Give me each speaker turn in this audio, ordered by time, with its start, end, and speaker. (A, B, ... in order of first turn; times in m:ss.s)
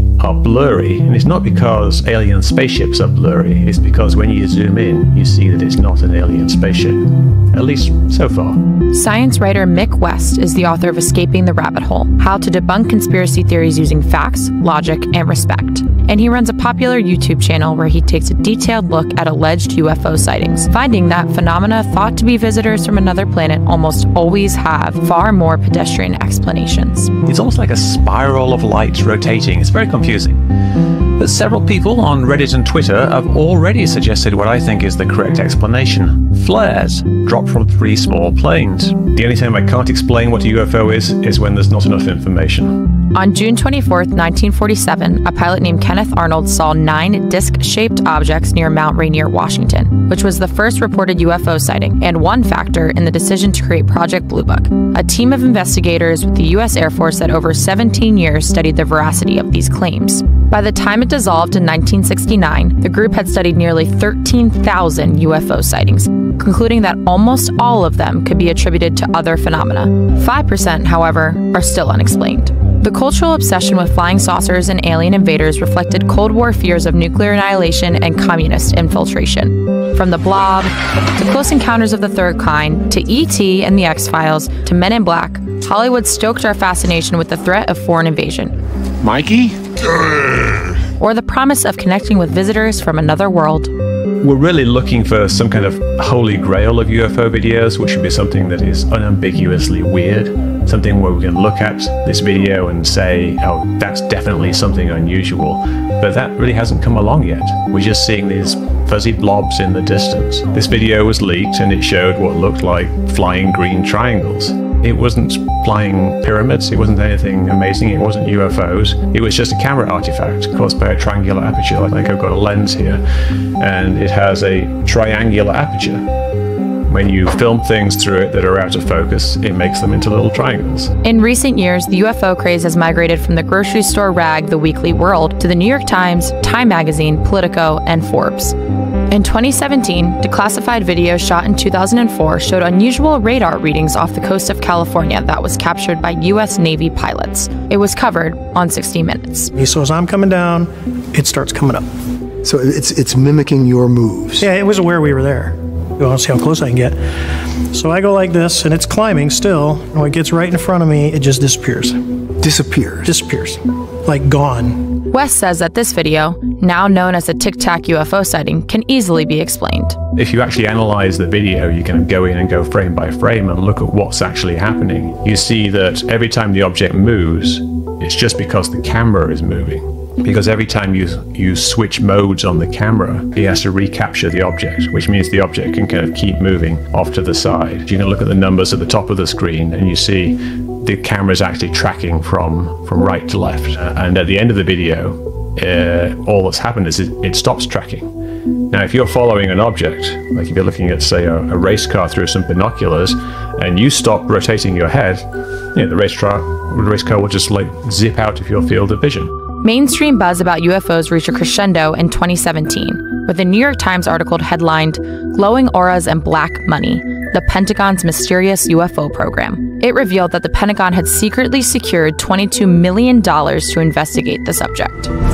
0:00.2-0:08.6 A
0:08.9-0:27.1 B
0:27.2-0:30.4 A
0:31.2-0:42.8 A
0:43.1-1:28.5 B
1:31.0-1:33.7 B
1:34.2-2:03.0 A
2:03.6-2:06.0 A
2:06.9-2:10.9 A
2:11.0-2:18.6 B
2:19.1-2:29.5 B
2:29.6-2:31.9 C
2:32.4-2:34.5 D
2:34.4-2:37.0 C
2:37.7-2:42.0 C
2:42.4-2:43.1 D
2:43.0-2:44.8 C
2:45.1-2:50.0 B
2:50.2-3:18.1 A
3:18.7-3:29.3 A
3:29.6-3:45.1 B